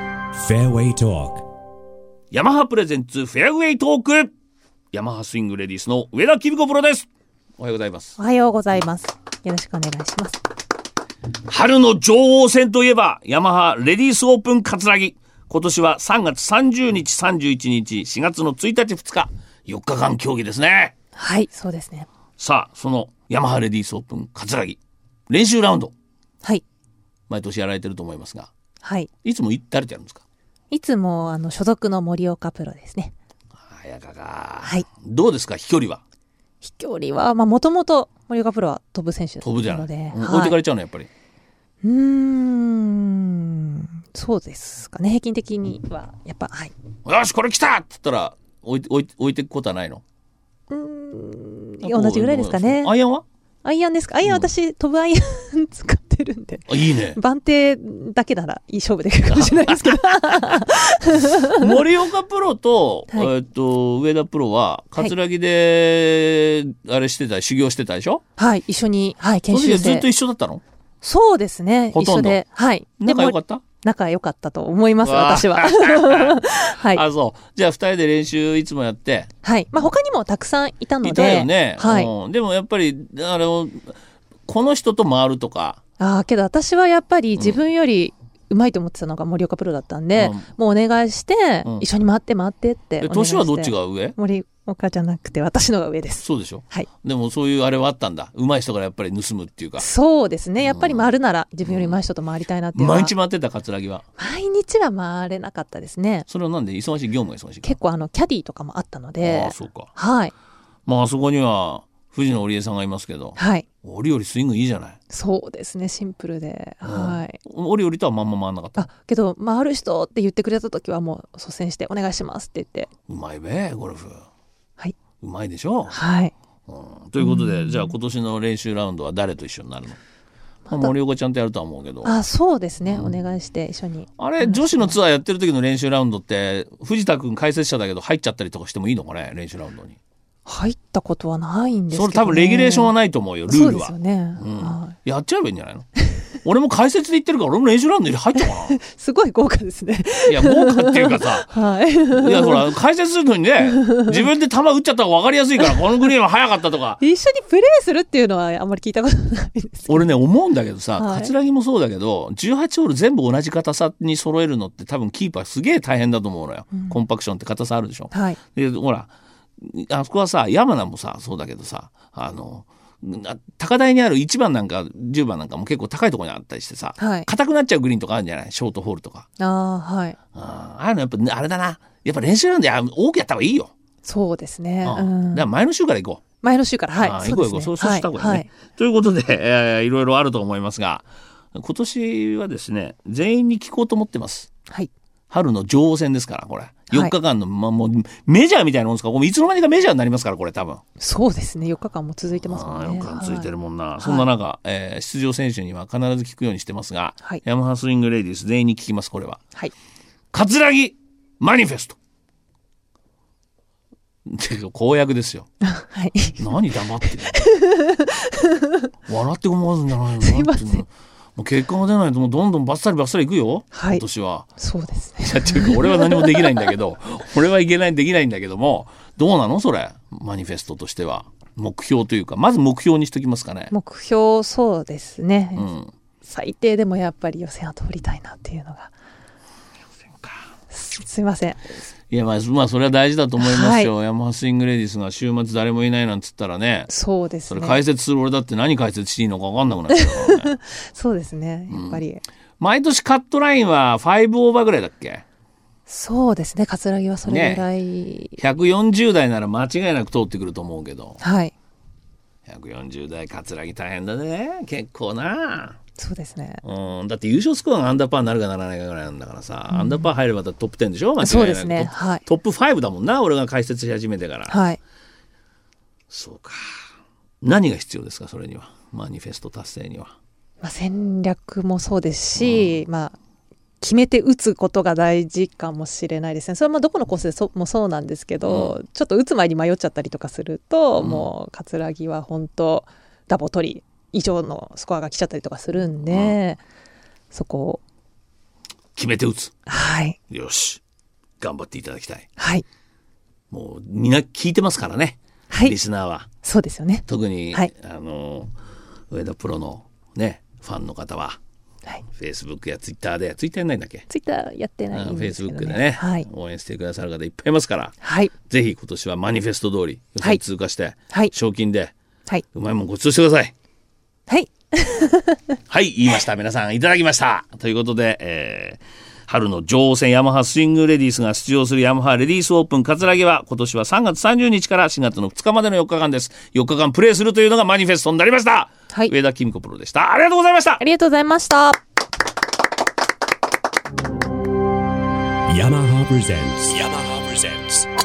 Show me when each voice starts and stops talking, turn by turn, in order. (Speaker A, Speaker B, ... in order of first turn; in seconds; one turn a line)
Speaker A: 0.3-1.4
Speaker B: 2.3-4.3
Speaker B: 4.9-8.2
Speaker C: 8.2-10.4
Speaker B: 11.5-20.9
Speaker C: 21.1-22.1
Speaker B: 22.4-25.9
Speaker B: 27.3-28.5
Speaker C: 28.8-29.1
Speaker B: 29.2-30.2
Speaker C: 30.7-33.1
Speaker B: 33.6-36.0
Speaker C: 36.6-40.6
Speaker B: 39.4-41.1
Speaker C: 41.8-46.7
Speaker B: 47.0-50.0
Speaker C: 50.7-52.9
Speaker B: 51.8-53.2
Speaker C: 53.6-61.7
Speaker B: 54.2-54.5
Speaker B: 56.7-57.2
Speaker B: 59.3-60.5
Speaker B: 61.1-68.2
Speaker C: 68.4-70.1
Speaker B: 69.5-70.6
Speaker C: 71.0-77.0
Speaker B: 71.9-72.4
Speaker B: 73.0-73.6
Speaker B: 75.0-79.3
Speaker C: 79.4-82.1
Speaker B: 81.0-84.0
Speaker B: 84.5-85.8
Speaker C: 86.0-96.9
Speaker B: 87.3-87.6
Speaker B: 90.1-90.5
Speaker B: 93.0-94.2
Speaker B: 96.2-99.8
Speaker C: 99.8-103.1
Speaker B: 100.6-101.1
Speaker B: 101.6-102.0
Speaker B: 102.8-104.0
Speaker C: 104.2-106.3
Speaker B: 106.3-107.8
Speaker C: 107.6-110.3
Speaker B: 109.2-109.9
Speaker B: 110.8-115.0
Speaker C: 113.3-113.7
Speaker C: 115.1-117.4
Speaker B: 116.8-118.9
Speaker C: 118.8-122.9
Speaker B: 123.1-124.2
Speaker B: 125.2-126.0
Speaker C: 125.9-126.3
Speaker B: 126.7-130.0
Speaker C: 127.2-127.9
Speaker C: 130.7-130.9
Speaker B: 130.7-132.2
Speaker C: 132.0-134.9
Speaker B: 132.8-133.1
Speaker B: 134.2-140.0
Speaker C: 140.4-142.9
Speaker B: 141.9-145.8
Speaker C: 143.5-144.9
Speaker B: 146.4-148.8
Speaker C: 148.4-152.7
Speaker B: 150.2-151.5
Speaker B: 152.1-157.0
Speaker C: 153.8-154.1
Speaker C: 157.0-160.1
Speaker B: 159.9-179.3
Speaker C: 161.0-161.3
Speaker C: 168.1-168.4
Speaker C: 177.0-177.3
Speaker C: 179.4-180.2
Speaker B: 180.3-183.7
Speaker C: 184.0-185.5
Speaker B: 184.8-186.2
Speaker C: 186.4-188.5
Speaker B: 186.9-194.5
Speaker B: 195.3-200.8
Speaker C: 196.9-197.1
Speaker C: 201.0-203.5
Speaker B: 202.3-209.4
Speaker C: 204.0-204.3
Speaker B: 210.3-212.0
Speaker B: 214.2-215.5
Speaker C: 215.6-218.9
Speaker B: 216.4-217.5
Speaker B: 219.1-224.5
Speaker C: 220.2-220.8
Speaker C: 223.7-224.0
Speaker C: 224.6-226.7
Speaker B: 225.2-233.7
Speaker C: 233.7-235.7
Speaker B: 235.6-235.9
Speaker C: 236.2-238.9
Speaker C: 240.7-241.9
Speaker B: 242.1-246.9
Speaker C: 243.4-243.9
Speaker C: 246.9-247.8
Speaker B: 247.5-250.5
Speaker C: 249.9-252.2
Speaker B: 251.7-252.0
Speaker B: 252.6-255.2
Speaker C: 255.9-258.4
Speaker B: 257.2-257.6
Speaker B: 258.4-261.2
Speaker C: 261.2-261.5
Speaker B: 262.4-265.8
Speaker C: 266.0-266.6
Speaker B: 266.6-274.6
Speaker C: 269.7-270.1
Speaker C: 271.2-272.2
Speaker C: 274.5-274.8
Speaker B: 276.1-276.8
Speaker B: 277.4-280.1
Speaker C: 280.6-283.2
Speaker B: 282.4-282.8
Speaker C: 283.8-296.6
Speaker B: 288.4-288.7
Speaker B: 291.0-291.3
Speaker B: 296.1-296.4
Speaker C: 297.3-297.8
Speaker B: 298.9-299.5
Speaker C: 299.7-300.2
Speaker B: 300.3-300.8
Speaker B: 301.4-302.3
Speaker C: 302.4-302.6
Speaker B: 303.5-306.3
Speaker C: 305.5-305.8
Speaker C: 306.4-307.7
Speaker B: 307.1-308.5
Speaker B: 309.1-311.4
Speaker B: 312.2-314.1
Speaker C: 314.1-316.3
Speaker B: 314.9-317.9
Speaker C: 318.0-318.3
Speaker B: 318.5-321.9
Speaker B: 322.5-323.5
Speaker C: 324.3-325.5
Speaker B: 325.7-340.8
Speaker C: 340.8-341.8
Speaker A: 345.5-347.9